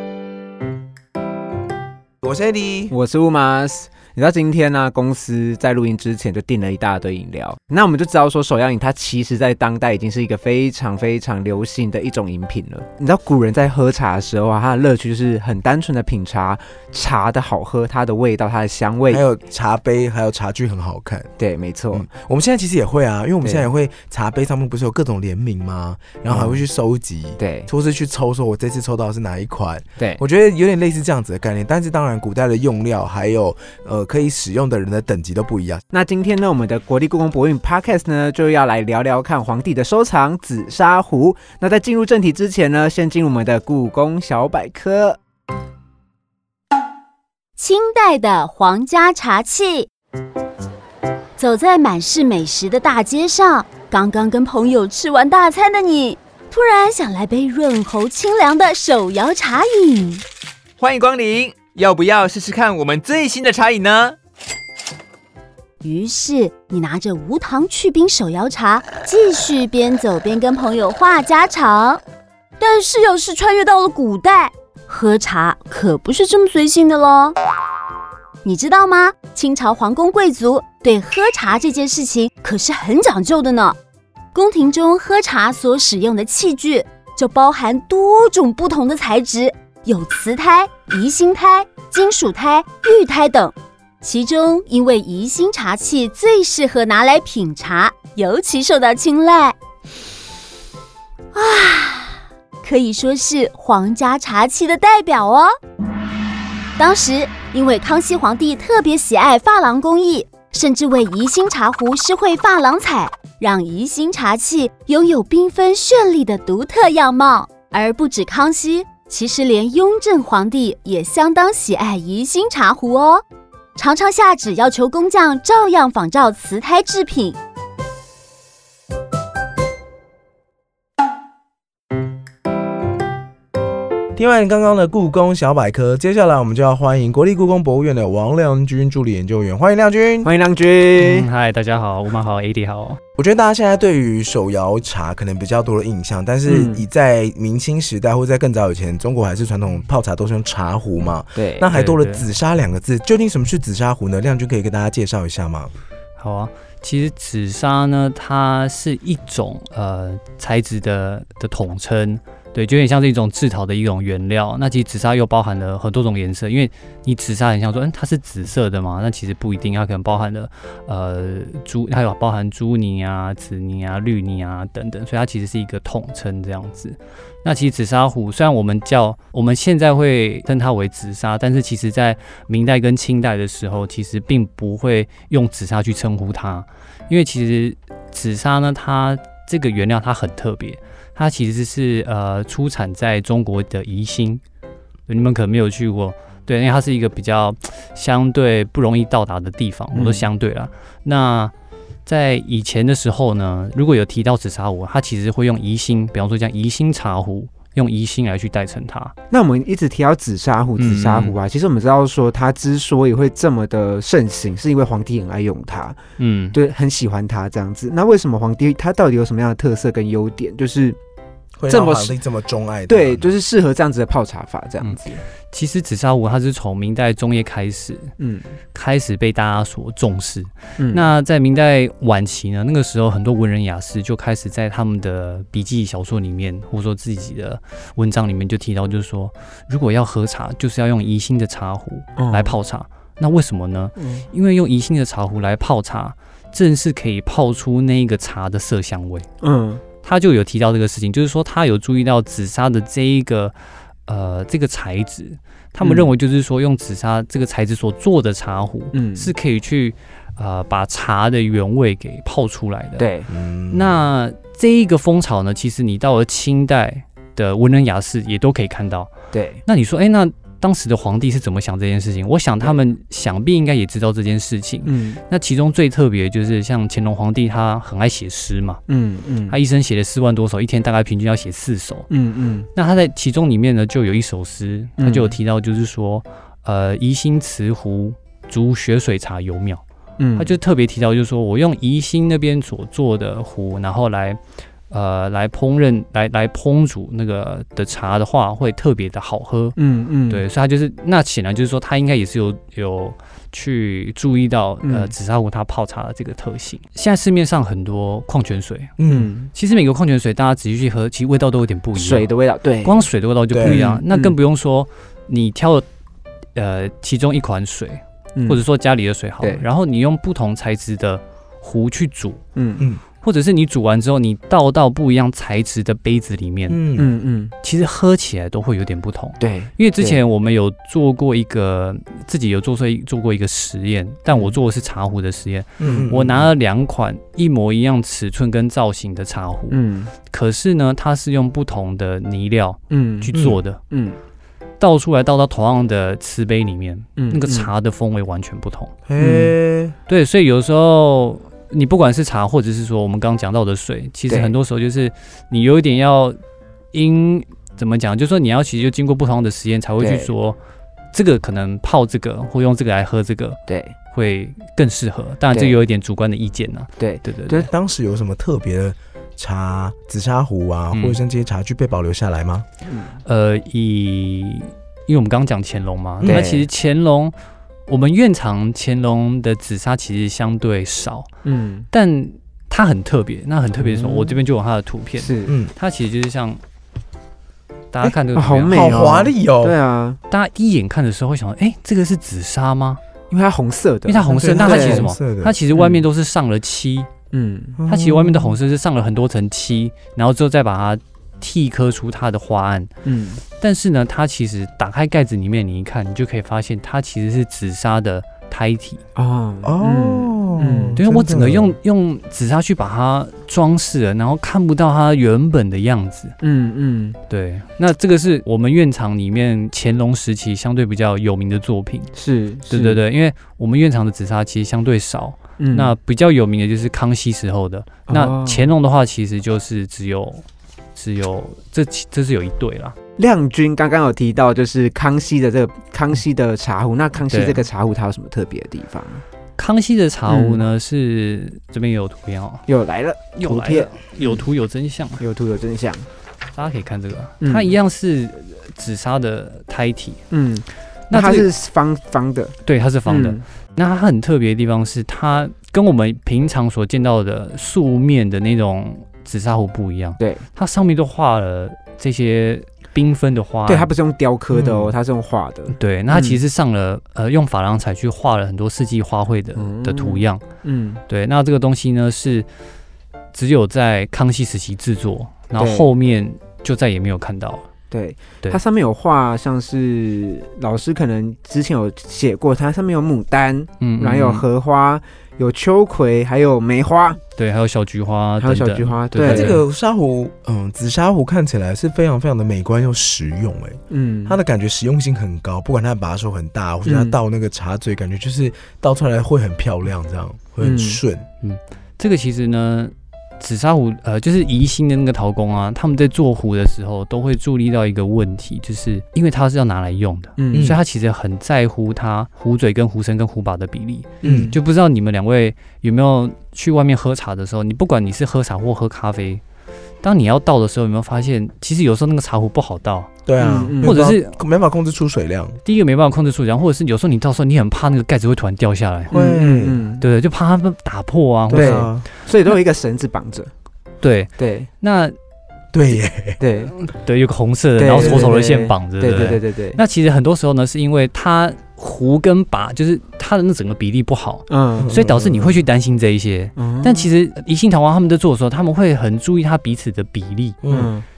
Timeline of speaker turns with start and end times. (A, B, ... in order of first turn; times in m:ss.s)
0:02.2-0:02.9 A
0:02.9-0:19.2 B
0:19.1-0:21.3 A
0:21.4-0:22.0 B
0:21.9-0:35.8 A
0:23.4-0:23.7 B
0:26.3-0:26.6 B
0:27.4-0:27.7 B
0:35.9-0:45.2 B
0:47.6-0:49.9 C
0:51.4-1:00.2 C
1:00.8-1:04.2 D
1:05.8-1:12.0 C
1:12.6-1:17.3 C
1:18.4-1:23.8 C
1:24.3-1:39.6 C
1:41.3-1:45.5 C
1:46.8-2:03.2 C
2:03.8-2:07.4 C
2:14.2-2:20.3 A
2:20.2-2:21.3 B
2:21.0-2:23.0 E
2:23.2-2:35.7 A
2:26.5-2:26.8 B
2:31.4-2:31.6 B
2:31.7-2:32.2 E
2:36.2-3:14.4 E
3:15.1-3:21.5 E
3:19.9-3:20.2 B
3:22.0-3:29.1 E
3:29.3-3:36.0 B
3:30.8-3:31.3 E
3:36.2-3:36.6 E
3:36.5-3:41.0 B
3:41.6-3:43.3 A
3:41.7-3:42.2 B
3:42.9-3:45.2 B
3:45.5-3:48.1 E
3:48.2-3:48.5 B
3:48.7-4:09.3 E
3:50.8-3:51.0 B
4:02.2-4:02.6 B
4:04.0-4:04.2 B
4:09.4-4:09.8 B
4:10.0-4:13.6 E
4:14.1-4:23.0 E
4:15.8-4:16.1 B
4:18.9-4:19.3 B
4:23.0-4:23.3 B
4:23.3-4:24.0 A
4:23.7-4:29.1 E
4:29.3-4:29.6 B
4:29.6-4:38.8 E
4:34.8-4:35.2 B
4:38.9-4:39.6 B
4:39.5-4:42.1 E
4:42.1-4:42.7 B
4:42.7-4:49.8 E
4:45.0-4:45.3 B
4:50.2-4:50.5 B
4:50.4-4:54.4 E
4:54.9-4:59.8 E
4:59.8-5:00.4 B
5:00.3-5:09.0 E
5:04.8-5:05.1 B
5:09.0-5:09.3 A
5:09.1-5:09.5 B
5:09.5-5:12.3 E
5:12.0-5:13.0 B
5:12.8-5:15.8 E
5:13.5-5:13.8 A
5:13.6-5:14.4 B
5:16.6-5:22.4 E
5:18.4-5:18.6 B
5:22.5-5:22.8 B
5:23.2-5:26.8 E
5:26.7-5:27.1 A
5:27.0-5:27.5 B
5:27.6-5:43.8 E
5:29.4-5:30.2 B
5:34.3-5:34.6 B
5:35.8-5:36.5 A
5:39.7-5:40.1 B
5:42.9-5:43.3 B
5:43.3-5:43.6 A
5:43.9-5:44.2 B
5:44.8-5:48.9 E
5:47.2-5:47.7 B
5:49.1-5:49.9 A
5:49.2-5:49.5 B
5:50.1-5:56.4 E
5:56.9-6:00.6 E
6:00.0-6:00.3 B
6:01.1-6:03.6 E
6:03.7-6:03.9 B
6:04.1-6:07.7 E
6:05.5-6:05.8 B
6:07.0-6:07.7 B
6:07.7-6:12.6 A
6:10.9-6:11.2 E
6:12.8-6:13.2 B
6:13.2-6:17.3 E
6:16.2-6:16.7 B
6:17.9-6:21.3 E
6:21.4-6:21.9 B
6:21.9-6:26.6 E
6:23.7-6:24.4 B
6:25.2-6:25.6 B
6:27.9-6:29.1 E
6:28.3-6:30.2 B
6:28.7-6:29.8 A
6:30.3-6:33.0 E
6:33.3-6:35.1 B
6:34.0-6:37.1 E
6:34.3-6:35.5 A
6:35.7-6:36.0 B
6:37.3-6:37.8 B
6:37.8-6:38.6 A
6:37.9-6:42.9 E
6:43.0-6:43.4 B
6:43.6-6:49.0 E
6:49.2-6:51.0 B
6:49.6-6:51.8 A
6:51.0-6:56.4 E
6:56.4-6:57.2 B
6:57.3-7:02.1 E
7:02.1-7:03.0 B
7:02.7-7:10.4 E
7:05.6-7:05.9 B
7:08.1-7:08.7 B
7:10.9-7:13.0 E
7:13.2-7:19.2 B
7:17.3-7:17.6 E
7:19.6-7:22.6 E
7:20.3-7:20.6 B
7:22.7-7:24.4 B
7:23.4-7:25.2 E
7:25.2-7:26.0 B
7:26.6-7:30.2 E
7:27.4-7:27.7 B
7:30.3-7:32.5 B
7:31.1-7:31.5 E
7:32.6-7:43.9 E
7:33.0-7:33.4 B
7:40.2-7:40.4 B
7:43.7-7:46.4 B
7:45.7-7:50.4 E
7:49.6-7:51.0 B
7:51.1-7:52.5 E
7:53.3-7:57.6 E
7:55.6-7:55.9 B
7:57.9-8:07.2 B
8:03.8-8:04.4 E
8:07.4-8:09.6 E
8:08.4-8:09.6 B
8:09.2-8:21.2 A
8:13.9-8:14.4 B
8:16.8-8:17.2 B
8:20.6-8:21.0 B
8:21.4-8:39.4 E
8:30.4-8:30.7 B
8:30.5-8:30.8 A
8:34.2-8:34.6 B
8:34.2-8:34.5 A
8:40.0-8:43.2 E
8:43.2-8:45.6 A
8:43.4-8:43.9 B
8:43.8-8:44.4 E
8:45.6-8:49.1 E
8:49.1-8:49.8 A
8:49.1-8:50.0 B
8:50.0-8:51.9 E
8:51.5-8:52.0 A
8:51.5-8:53.5 B
8:54.0-8:55.1 E
8:54.4-8:54.7 B
8:55.7-8:56.4 A
8:56.4-8:56.7 B
8:56.7-9:10.6 E
8:57.8-8:59.8 B
8:57.9-8:58.3 A
9:04.5-9:04.9 B
9:04.8-9:05.6 A
9:06.6-9:07.1 B
9:10.6-9:10.9 A
9:10.7-9:11.0 B